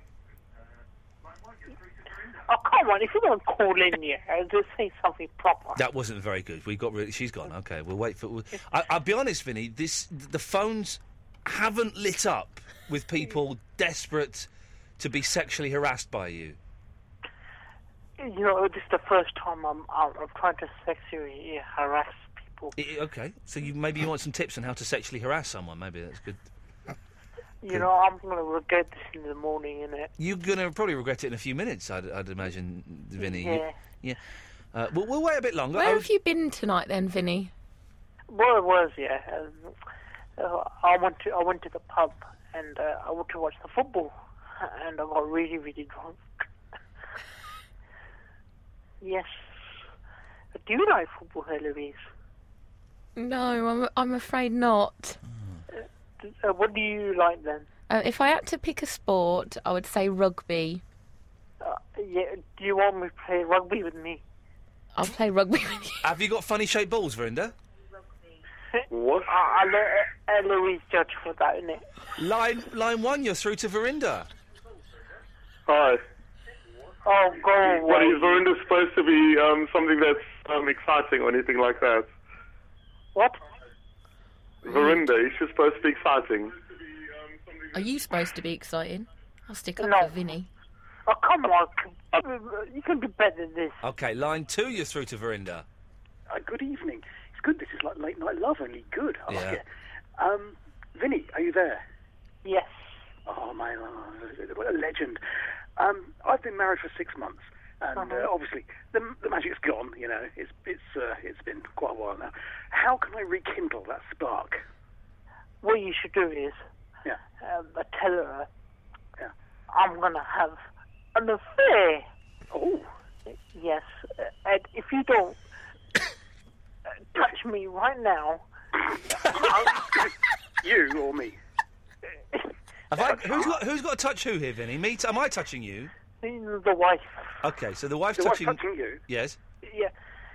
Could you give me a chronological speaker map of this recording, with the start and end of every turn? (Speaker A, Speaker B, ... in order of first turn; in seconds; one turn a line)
Speaker A: 2.5-5.8
Speaker B: 5.8-16.6
Speaker A: 18.2-22.7
Speaker B: 22.8-26.4
Speaker A: 27.6-30.1
Speaker B: 30.2-34.2
Speaker A: 33.2-33.8
Speaker B: 34.7-36.1
Speaker C: 35.7-37.5
Speaker A: 38.3-39.7
Speaker A: 40.4-46.4
Speaker A: 49.0-49.7
Speaker A: 50.5-52.0
Speaker C: 53.1-55.2
Speaker A: 55.7-57.7
Speaker C: 57.9-60.8
Speaker A: 61.6-64.2
Speaker C: 65.0-66.0
Speaker B: 66.0-67.5
Speaker D: 68.9-69.3
Speaker A: 69.2-71.8
Speaker B: 72.2-74.3
Speaker D: 75.7-76.0
Speaker A: 77.0-78.4
Speaker D: 77.7-82.1
Speaker D: 84.6-86.5
Speaker C: 87.7-90.5
Speaker A: 89.8-90.1
Speaker A: 91.1-93.8
Speaker B: 93.8-95.7
Speaker E: 96.3-99.6
Speaker B: 99.3-99.6
Speaker E: 100.2-101.8
Speaker A: 102.4-103.0
Speaker E: 103.2-105.2
Speaker E: 105.8-114.6
Speaker A: 108.0-108.3
Speaker A: 115.6-116.6
Speaker A: 117.4-118.5
Speaker A: 119.7-120.6
Speaker A: 121.1-122.1
Speaker E: 122.5-122.9
Speaker A: 123.5-125.4
Speaker A: 127.1-128.4
Speaker E: 129.2-131.4
Speaker B: 132.9-135.9
Speaker A: 136.2-137.3
Speaker B: 137.4-139.4
Speaker E: 138.2-139.0
Speaker A: 139.6-139.9